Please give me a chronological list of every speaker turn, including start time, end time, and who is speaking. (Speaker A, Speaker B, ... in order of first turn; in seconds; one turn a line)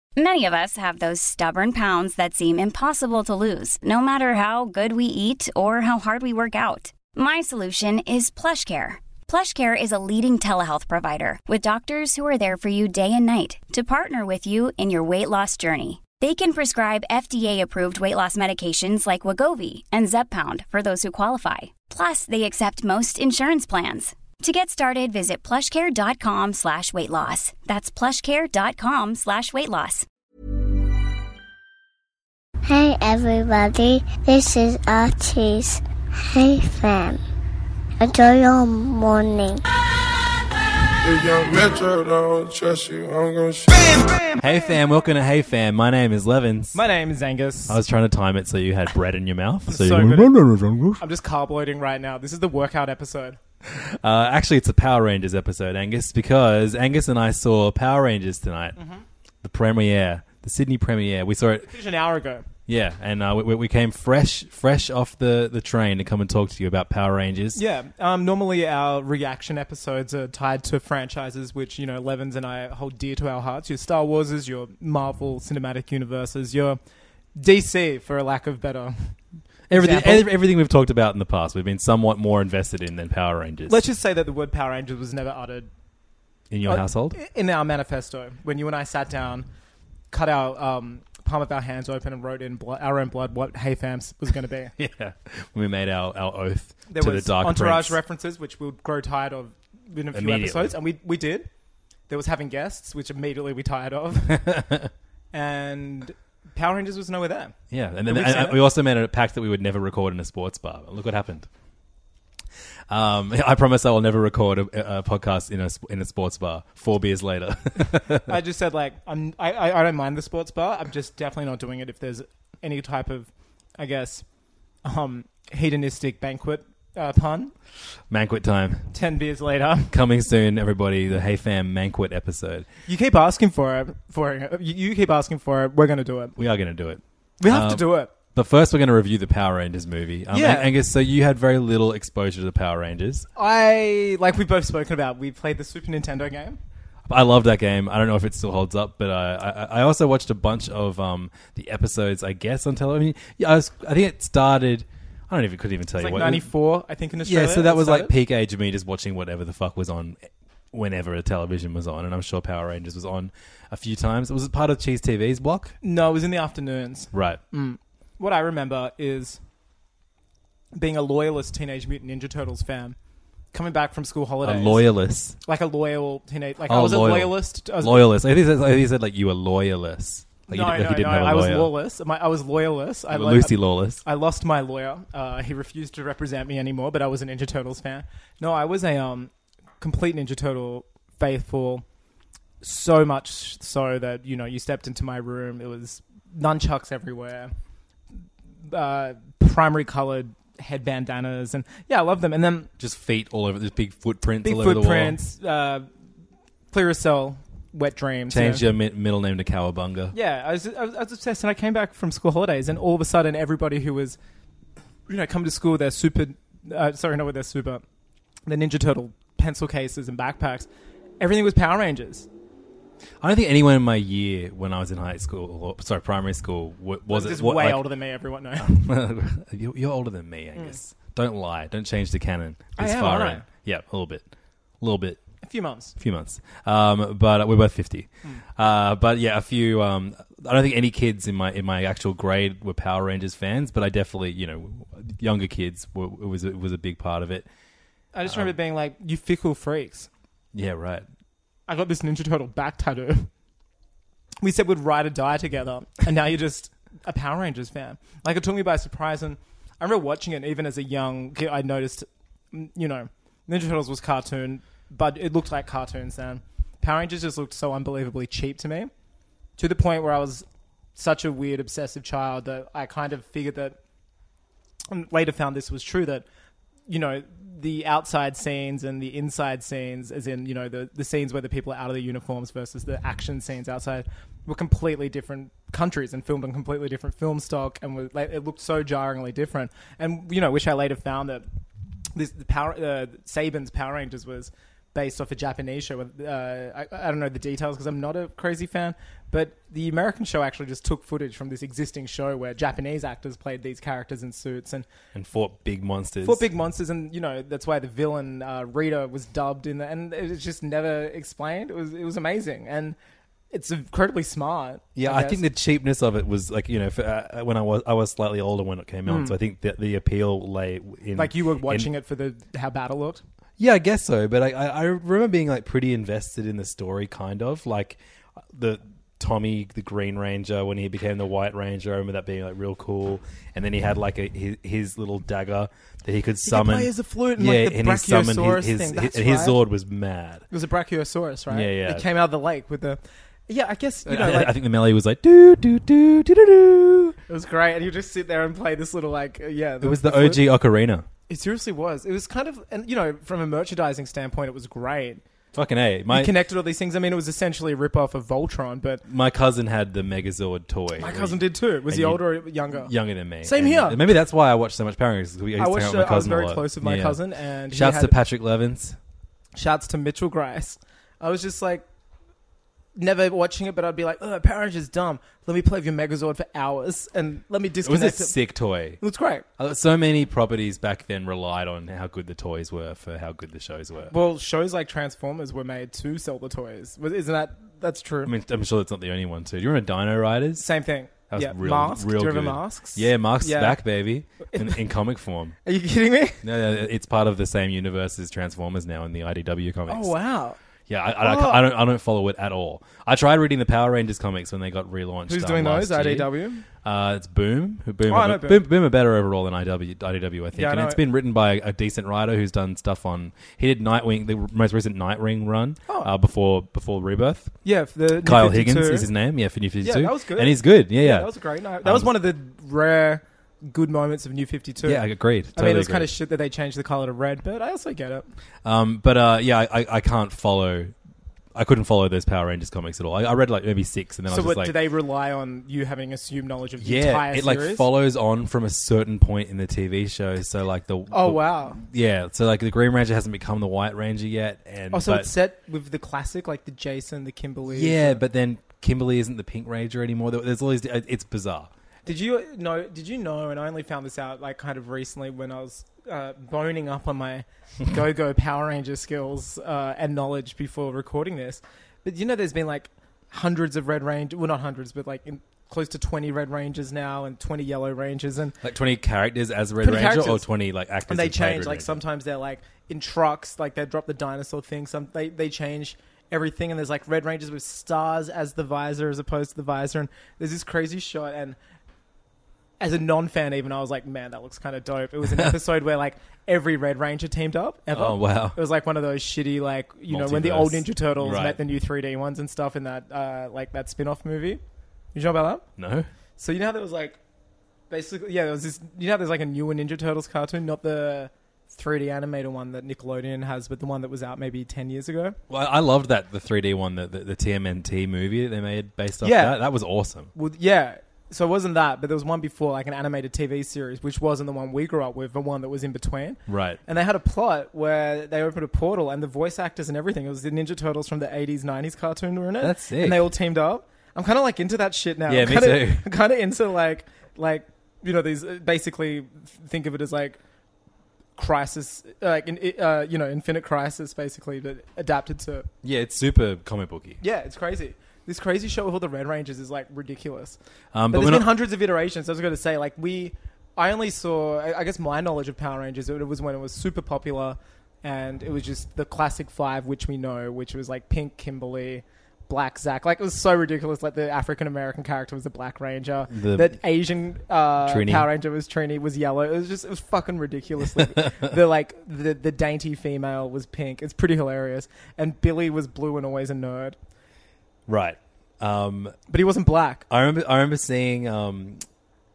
Speaker A: 0.2-30.1
Speaker B: 32.6-37.2
Speaker B: 38.0-39.6
Speaker C: 41.0-44.2
Speaker D: 44.4-46.8
Speaker E: 46.7-47.8
Speaker D: 47.7-51.0
Speaker E: 49.7-50.3
Speaker E: 51.0-53.4
Speaker D: 53.7-58.8
Speaker E: 58.8-59.0
Speaker D: 59.4-61.7
Speaker E: 61.7-62.5
Speaker D: 62.7-67.6
Speaker E: 67.5-76.8
Speaker E: 77.4-79.2
Speaker D: 79.7-83.8
Speaker E: 79.7-80.3
Speaker E: 83.7-85.7
Speaker D: 86.5-87.2
Speaker E: 86.7-89.5
Speaker E: 90.1-94.7
Speaker D: 94.8-98.0
Speaker E: 96.9-101.5
Speaker D: 100.1-100.8
Speaker E: 102.1-104.5
Speaker D: 104.3-104.9
Speaker E: 105.3-107.5
Speaker D: 107.7-111.5
Speaker E: 108.1-108.6
Speaker D: 112.9-118.3
Speaker E: 118.3-124.2
Speaker E: 124.8-127.5
Speaker D: 128.1-128.9
Speaker E: 128.9-129.9
Speaker D: 129.9-132.7
Speaker E: 132.9-136.4
Speaker D: 136.4-143.3
Speaker E: 137.4-138.1
Speaker E: 140.3-140.7
Speaker E: 143.4-146.6
Speaker D: 147.1-156.5
Speaker E: 156.0-158.1
Speaker D: 157.2-165.8
Speaker E: 165.8-169.4
Speaker D: 167.1-167.4
Speaker E: 170.8-173.0
Speaker E: 173.5-174.8
Speaker D: 174.4-175.4
Speaker E: 175.4-178.1
Speaker D: 176.7-181.7
Speaker E: 180.5-191.8
Speaker D: 183.1-184.0
Speaker E: 192.6-197.5
Speaker E: 198.7-202.7
Speaker D: 202.8-205.2
Speaker E: 204.4-205.9
Speaker E: 206.7-208.6
Speaker D: 208.3-210.2
Speaker E: 210.1-214.2
Speaker E: 215.1-217.8
Speaker E: 218.5-220.7
Speaker E: 221.2-222.3
Speaker D: 223.2-227.8
Speaker E: 227.1-228.8
Speaker D: 228.6-234.2
Speaker E: 232.8-233.5
Speaker D: 234.8-235.2
Speaker E: 235.4-235.9
Speaker D: 236.0-247.5
Speaker E: 248.1-250.1
Speaker D: 248.3-248.5
Speaker D: 250.5-251.1
Speaker E: 251.7-253.3
Speaker E: 254.4-268.9
Speaker E: 269.6-273.8
Speaker E: 274.9-276.2
Speaker E: 276.9-291.4
Speaker E: 292.1-304.9
Speaker D: 305.1-306.4
Speaker E: 306.2-313.0
Speaker E: 313.5-315.4
Speaker D: 315.0-321.9
Speaker E: 319.1-319.4
Speaker E: 321.2-323.2
Speaker D: 323.6-328.0
Speaker D: 328.5-340.4
Speaker E: 336.4-339.6
Speaker E: 340.5-344.6
Speaker D: 341.5-342.1
Speaker D: 344.1-347.2
Speaker E: 347.2-350.4
Speaker D: 349.8-351.1
Speaker E: 351.3-355.2
Speaker D: 355.5-356.3
Speaker E: 356.1-359.0
Speaker D: 359.1-367.2
Speaker E: 361.0-364.0
Speaker E: 365.6-368.1
Speaker D: 367.7-369.0
Speaker E: 369.6-371.9
Speaker E: 373.0-378.4
Speaker D: 377.8-379.0
Speaker E: 379.0-379.5
Speaker D: 379.6-384.1
Speaker E: 384.1-388.3
Speaker D: 388.2-390.7
Speaker E: 390.6-393.8
Speaker D: 391.3-395.6
Speaker E: 394.4-394.8
Speaker E: 395.6-396.4
Speaker D: 396.4-400.1
Speaker E: 399.9-400.6
Speaker D: 400.9-406.3
Speaker E: 401.2-401.6
Speaker E: 405.3-406.6
Speaker D: 406.8-417.5
Speaker E: 408.1-408.6
Speaker E: 410.6-411.0
Speaker E: 417.6-419.1
Speaker D: 418.2-421.3
Speaker E: 419.8-425.0
Speaker D: 421.8-422.1
Speaker D: 424.8-426.1
Speaker E: 425.6-428.3
Speaker D: 428.6-430.9
Speaker D: 431.6-434.8
Speaker E: 434.3-437.9
Speaker D: 436.8-445.3
Speaker E: 441.1-441.8
Speaker E: 444.9-448.2
Speaker D: 447.7-451.7
Speaker E: 452.1-468.6
Speaker D: 468.6-472.0
Speaker E: 469.8-470.4
Speaker E: 471.1-481.6
Speaker E: 482.8-494.6
Speaker D: 485.3-485.6
Speaker D: 487.9-488.6
Speaker D: 490.1-491.6
Speaker E: 495.1-495.6
Speaker D: 495.8-496.1
Speaker E: 496.4-497.2
Speaker E: 497.9-505.4
Speaker D: 505.5-510.3
Speaker E: 509.2-509.6
Speaker E: 510.4-530.4
Speaker D: 516.5-516.8
Speaker D: 522.6-523.3
Speaker D: 525.3-526.0
Speaker E: 531.4-535.7
Speaker D: 535.8-537.2
Speaker E: 537.2-540.6
Speaker D: 540.9-541.5
Speaker E: 541.1-567.0
Speaker D: 556.3-556.8
Speaker D: 557.9-558.3
Speaker D: 561.0-561.3
Speaker D: 567.9-569.1
Speaker E: 569.3-570.0
Speaker D: 570.1-571.8